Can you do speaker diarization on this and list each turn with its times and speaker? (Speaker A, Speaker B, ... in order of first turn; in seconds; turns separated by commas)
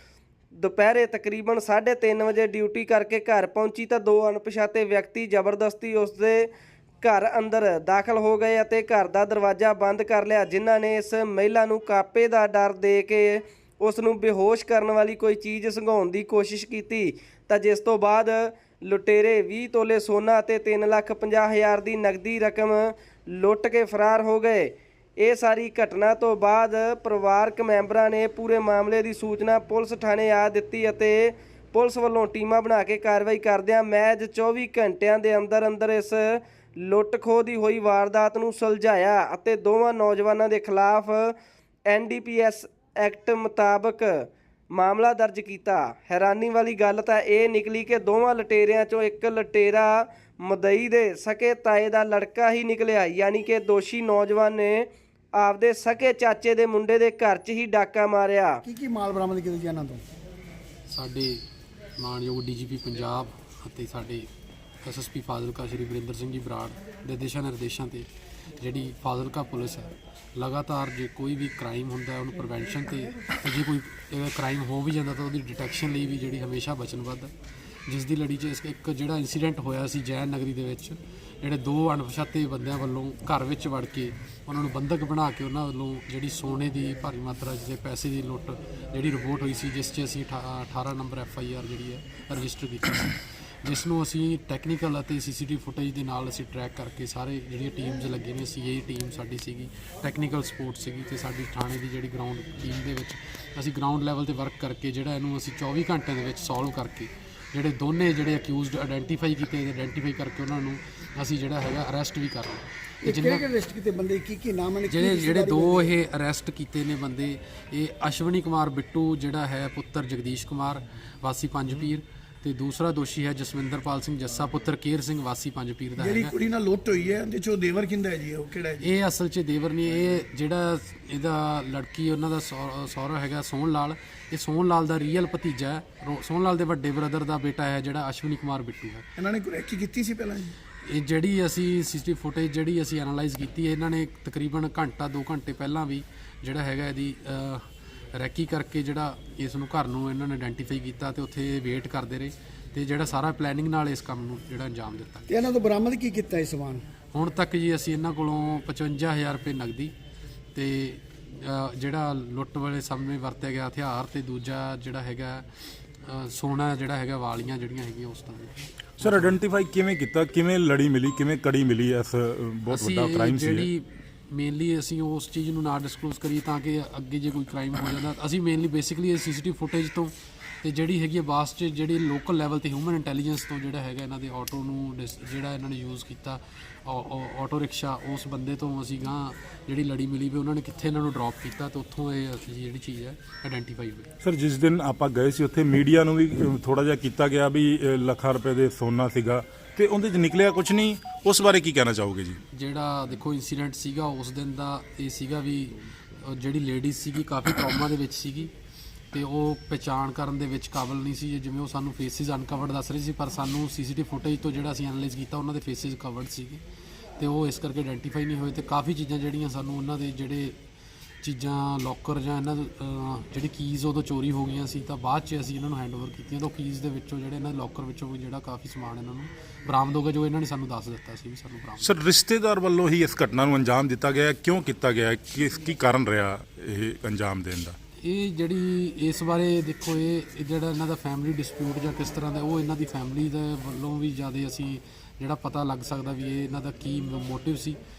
Speaker A: 0.6-6.5, Speaker A: 7.0-41.4, Speaker A: 41.9-58.6, Speaker B: 58.6-60.0, Speaker C: 60.9-61.4, Speaker C: 62.0-64.3, Speaker C: 64.8-68.1, Speaker C: 68.6-77.3, Speaker C: 77.9-113.5, Speaker B: 113.0-115.9, Speaker C: 114.8-126.3, Speaker D: 126.0-128.9, Speaker C: 128.8-139.1, Speaker D: 139.2-140.5, Speaker C: 140.8-155.3, Speaker B: 155.3-156.8, Speaker C: 157.1-159.9, Speaker C: 160.6-165.5, Speaker C: 166.1-169.4, Speaker E: 169.0-173.7, Speaker C: 172.7-194.1, Speaker E: 194.2-202.4, Speaker C: 202.5-208.5, Speaker C: 209.1-216.6, Speaker C: 217.2-220.6, Speaker C: 221.2-232.0, Speaker E: 231.8-237.8, Speaker C: 238.0-247.8